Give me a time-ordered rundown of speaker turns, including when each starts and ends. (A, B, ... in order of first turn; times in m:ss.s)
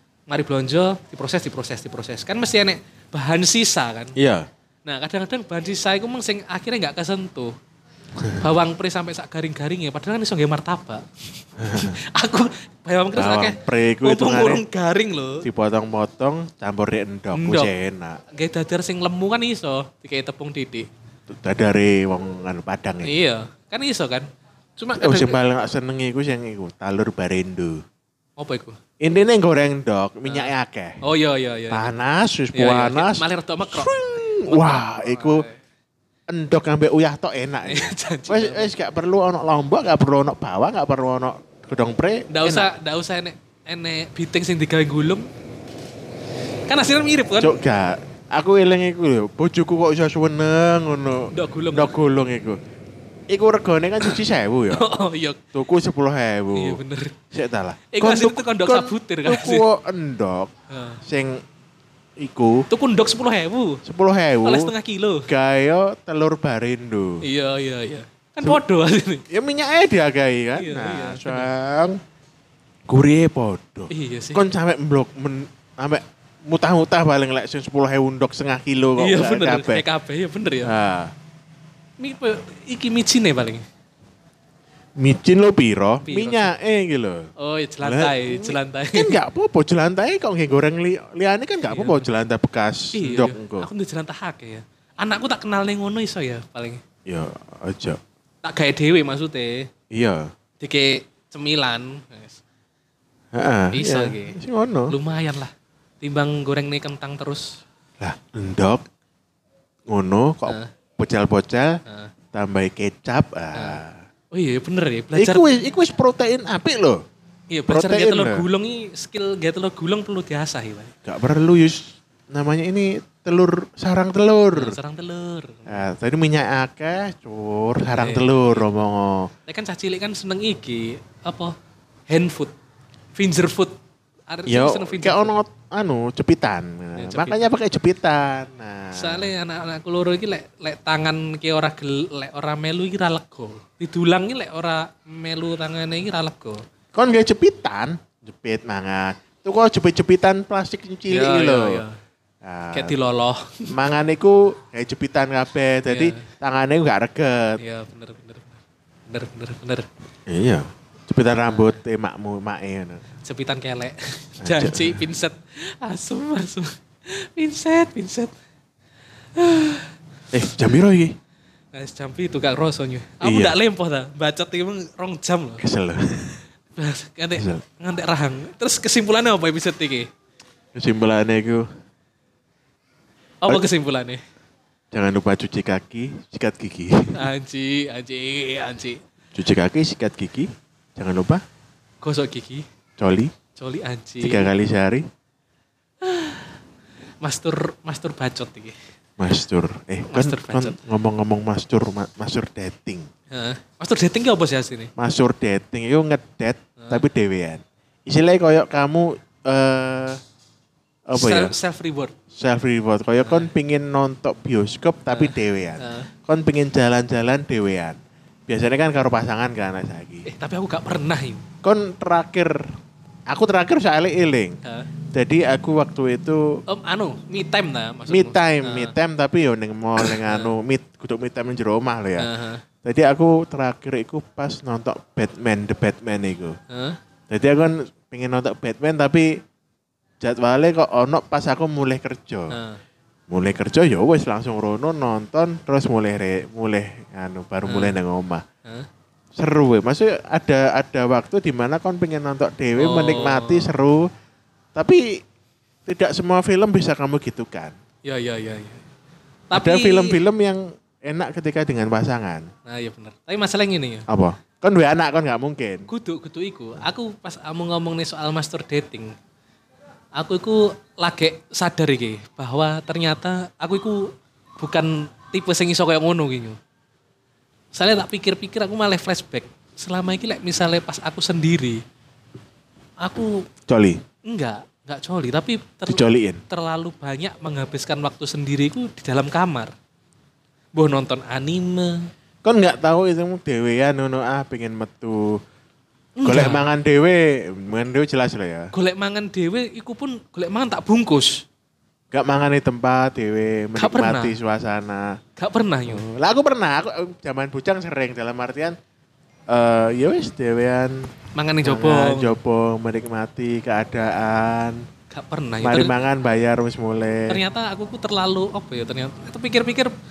0:00.3-0:04.2 A
0:04.2-0:04.5 B
0:04.8-0:07.5 A
0:08.4-0:11.0 A
0:11.6-0:12.0 B
0:11.7-0:15.5 A
0:13.2-0:14.6 B
0:15.4-0:18.2 B
0:17.3-0:17.7 A
0:18.3-0:20.9 A
0:21.3-0:23.1 B
0:23.0-0:25.4 A
0:25.0-0:27.8 B
0:28.4-0:28.8 A
0:29.0-0:31.0 B
0:30.3-0:31.9 A
0:31.7-0:35.5 B
0:32.6-0:35.6 A
0:36.3-0:42.7 B
0:37.7-0:38.7 A
0:42.3-0:45.3 A
0:46.7-0:47.6 A
0:47.4-0:52.6 B
0:51.3-0:52.0 A
0:53.3-0:54.8 B
0:54.7-0:55.4 A
0:55.6-0:56.8 B
0:56.6-0:57.2 A
0:57.3-1:00.5 B
0:57.9-0:59.7 A
1:00.7-1:01.0 A
1:01.0-1:01.4 B
1:02.2-1:02.7 B
1:02.7-1:03.8 A
1:03.8-1:04.7 B
1:04.4-1:05.3 A
1:05.3-1:07.2 B
1:07.2-1:09.2 A
1:09.3-1:12.0 B
1:10.6-1:11.5 A
1:12.9-1:19.8 B
1:13.9-1:14.4 A
1:19.0-1:20.7 A
1:20.6-1:21.1 B
1:22.0-1:23.6 A
1:25.0-1:27.3 B
1:26.0-1:26.5 A
1:27.4-1:29.2 A
1:27.8-1:33.7 B
1:31.7-1:32.1 A
1:32.9-1:36.8 A
1:37.1-1:38.0 B
1:38.4-1:39.7 A
1:39.9-1:40.3 B
1:40.6-1:42.4 A
1:43.3-1:44.9 B
1:43.7-1:44.4 A
1:44.9-1:47.6 A
1:48.0-1:48.9 B
1:49.9-1:51.8 B
1:51.9-1:52.1 A
1:52.3-1:54.0 B
1:53.6-1:53.8 A
1:54.3-1:55.5 A
1:55.1-1:57.0 B
1:57.5-2:00.9 A
1:57.7-1:58.4 B
2:01.0-2:04.8 B
2:04.5-2:05.9 A
2:05.7-2:09.3 B
2:08.0-2:08.6 A
2:09.5-2:11.6 A
2:12.1-2:12.5 A
2:13.2-2:13.8 A
2:14.3-2:15.4 A
2:14.5-2:19.3 B
2:17.0-2:17.5 A
2:19.0-2:26.6 A
2:26.9-2:31.8 B
2:31.1-2:32.0 A
2:32.4-2:33.0 B
2:32.7-2:33.7 A
2:33.7-2:37.6 B
2:35.9-2:36.3 A
2:37.6-2:39.9 A
2:40.3-2:43.0 B
2:41.5-2:41.8 A
2:43.2-2:48.3 A
2:44.4-2:45.0 B
2:49.4-2:49.9 A
2:50.3-2:51.2 B
2:51.7-2:55.6 A
2:53.2-2:53.6 B
2:55.6-2:56.4 B
2:56.8-3:00.1 A
2:57.4-2:57.6 B
3:00.8-3:01.7 B
3:03.4-3:04.2 A
3:04.9-3:07.3 B
3:07.2-3:09.0 A
3:09.4-3:11.4 B
3:12.0-3:12.7 A
3:13.0-3:13.3 B
3:13.6-3:14.5 A
3:14.2-3:15.0 B
3:16.0-3:16.5 A
3:17.2-3:18.8 A
3:19.2-3:23.1 B
3:20.1-3:20.8 A
3:23.3-3:24.9 A
3:25.0-3:30.2 B
3:31.1-3:31.5 B
3:31.1-3:32.1 A
3:32.3-3:40.3 B
3:33.2-3:33.5 A
3:35.1-3:36.1 A
3:40.2-3:41.4 A
3:41.6-3:42.6 B
3:43.3-3:44.6 B
3:44.6-3:44.9 A
3:45.1-3:46.6 B
3:46.7-3:48.9 A
3:48.1-3:52.3 B
3:50.0-3:50.5 A
3:52.2-3:52.6 A
3:52.8-3:56.6 B
3:56.7-3:57.0 A
3:57.3-3:59.4 B
4:00.2-4:02.6 B
4:02.5-4:02.8 A
4:03.3-4:08.4 B
4:07.7-4:08.0 A
4:09.4-4:14.1 B
4:12.8-4:13.8 A
4:14.8-4:15.0 B
4:15.9-4:17.8 B
4:18.0-4:18.8 A
4:19.5-4:20.2 A
4:19.5-4:22.5 B
4:22.7-4:24.1 A
4:24.1-4:25.9 B
4:25.9-4:29.2 A
4:30.2-4:36.6 A
4:37.7-4:41.8 A
4:43.0-4:43.4 A
4:43.7-4:44.0 B
4:44.2-4:49.7 A
4:45.9-4:46.4 B
4:50.7-4:52.1 A
4:52.4-4:55.4 B
4:56.2-4:56.7 A
4:56.2-4:58.7 B
4:58.7-5:01.4 A
5:02.1-5:05.2 B
5:03.8-5:04.4 A
5:05.4-5:06.0 A
5:05.9-5:08.8 B
5:09.5-5:11.1 B
5:11.4-5:12.4 A
5:11.6-5:14.8 B
5:15.1-5:15.9 A
5:15.6-5:17.4 B
5:17.3-5:19.9 A